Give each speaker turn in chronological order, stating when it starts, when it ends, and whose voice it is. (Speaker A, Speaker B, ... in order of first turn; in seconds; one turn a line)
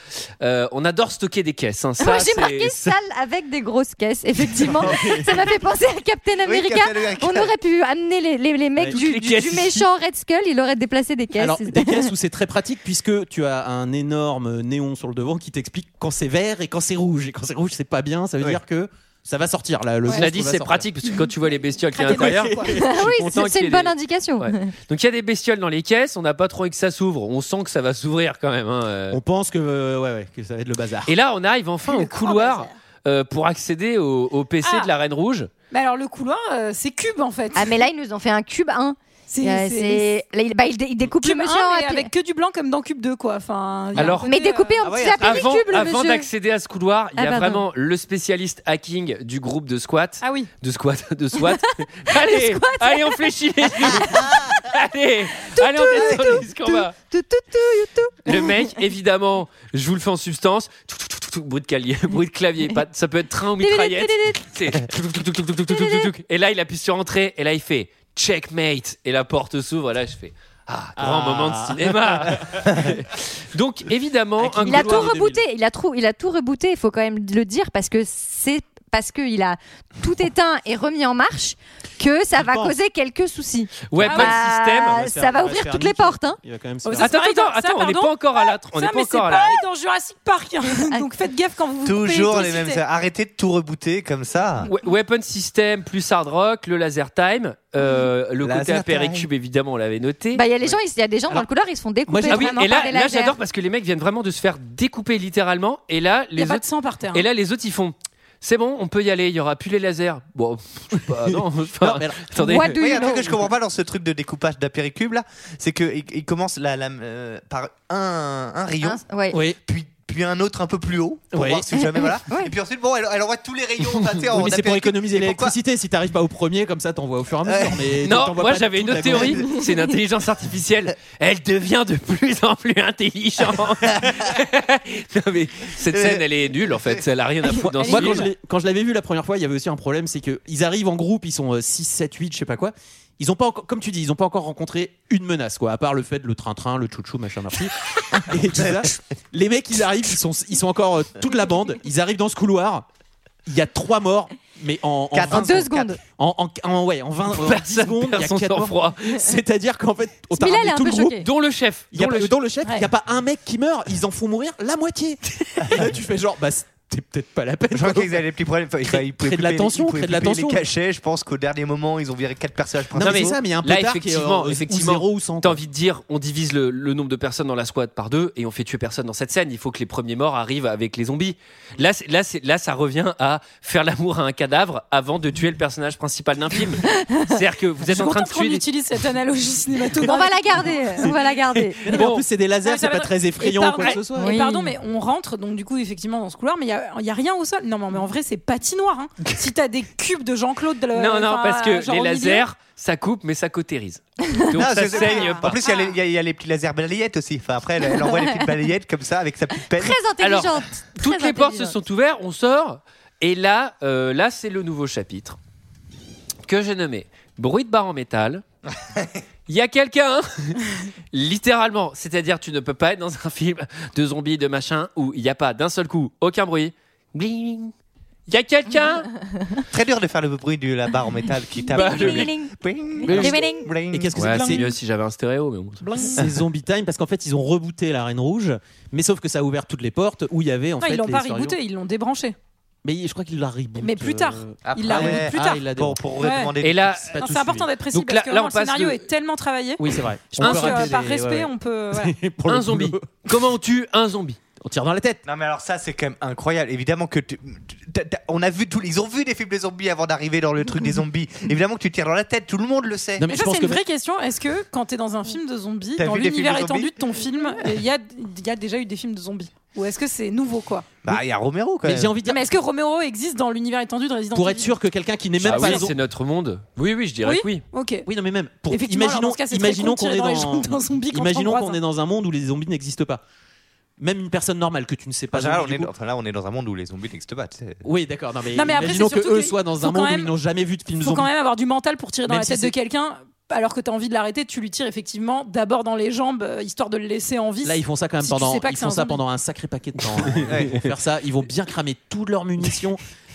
Speaker A: 0.4-2.9
Speaker B: 2.0-12.1
Speaker C: 4.6-5.4
Speaker D: 6.4-7.5
Speaker A: 8.8-9.9
Speaker C: 11.4-20.9
Speaker A: 20.1-29.2
Speaker E: 21.9-22.8
Speaker C: 22.0-23.3
Speaker B: 22.8-24.7
Speaker C: 29.1-31.1
Speaker A: 31.1-35.5
Speaker E: 31.9-32.7
Speaker E: 34.6-34.9
Speaker E: 35.7-37.8
Speaker B: 37.5-42.1
Speaker E: 39.3-40.1
Speaker E: 41.2-44.8
Speaker A: 44.0-44.3
Speaker B: 44.0-46.3
Speaker D: 44.8-45.6
Speaker A: 45.2-57.0
Speaker B: 47.2-47.6
Speaker E: 50.2-50.5
Speaker B: 52.1-54.5
Speaker B: 55.5-58.6
Speaker A: 58.2-75.1
Speaker B: 63.6-64.4
Speaker B: 65.7-66.1
Speaker C: 71.0-72.9
Speaker C: 74.4-75.4
Speaker B: 74.6-86.4
Speaker C: 82.3-82.8
Speaker A: 83.9-85.0
Speaker C: 84.0-87.1
Speaker E: 84.0-84.3
Speaker E: 86.8-92.8
Speaker A: 87.0-89.6
Speaker D: 91.8-94.7
Speaker A: 94.6-100.4
Speaker D: 98.4-99.3
Speaker B: 100.3-103.4
Speaker C: 102.0-102.7
Speaker A: 102.3-112.8
Speaker E: 106.4-107.3
Speaker C: 111.8-112.4
Speaker B: 112.4-113.5
Speaker D: 112.8-125.5
Speaker B: 118.8-119.4
Speaker C: 119.3-119.6
Speaker C: 121.3-121.7
Speaker B: 122.0-122.5
Speaker C: 124.3-129.5
Speaker D: 127.5-127.9
Speaker A: 128.1-138.3
Speaker B: 129.5-129.8
Speaker D: 135.8-137.0
Speaker C: 137.7-152.8
Speaker E: 137.9-138.2
Speaker C: 153.5-161.2
Speaker D: 155.1-155.9
Speaker B: 155.3-156.0
Speaker A: 157.3-159.2
Speaker B: 160.4-161.2
Speaker A: 161.2-162.3
Speaker C: 161.9-168.2
Speaker A: 165.4-165.8
Speaker D: 167.7-173.4
Speaker C: 168.9-170.6
Speaker C: 172.9-175.6
Speaker A: 173.0-188.6
Speaker B: 186.9-187.2
Speaker E: 187.9-191.0
Speaker B: 190.0-192.0
Speaker C: 191.8-194.4
Speaker A: 191.9-192.2
Speaker E: 192.6-202.4
Speaker B: 194.1-194.7
Speaker A: 200.9-205.6
Speaker D: 204.6-210.0
Speaker E: 204.9-205.9
Speaker B: 207.9-208.5
Speaker B: 209.7-211.8
Speaker A: 210.2-215.4
Speaker A: 216.5-218.4
Speaker D: 218.8-219.1
Speaker A: 219.5-220.6
Speaker A: 221.1-227.7
Speaker A: 228.3-229.1
Speaker D: 229.7-234.4
Speaker B: 231.7-233.7
Speaker A: 231.7-232.3
Speaker C: 233.1-234.7
Speaker A: 234.1-235.9
Speaker C: 235.9-241.6
Speaker E: 240.8-242.4
Speaker C: 242.8-246.1
Speaker E: 243.8-245.6
Speaker D: 244.6-247.0
Speaker E: 246.2-246.5
Speaker A: 246.6-247.2
Speaker C: 246.9-247.7
Speaker E: 247.2-252.1
Speaker A: 247.9-249.1
Speaker C: 249.8-253.4
Speaker A: 250.4-250.9
Speaker A: 252.5-254.4
Speaker C: 254.6-255.2
Speaker D: 255.3-263.2
Speaker C: 263.2-263.8
Speaker E: 263.3-270.9
Speaker D: 266.0-267.1
Speaker D: 271.0-272.1
Speaker C: 271.8-272.4
Speaker E: 272.3-274.7
Speaker C: 274.3-276.0
Speaker A: 275.4-277.6
Speaker E: 277.2-278.1
Speaker C: 278.1-283.2
Speaker E: 278.7-281.8
Speaker C: 284.0-285.9
Speaker D: 285.3-287.8
Speaker C: 287.8-291.3
Speaker E: 288.5-290.3
Speaker E: 291.0-299.2
Speaker C: 292.3-292.7
Speaker C: 297.6-303.0
Speaker A: 300.1-300.4
Speaker D: 300.4-300.8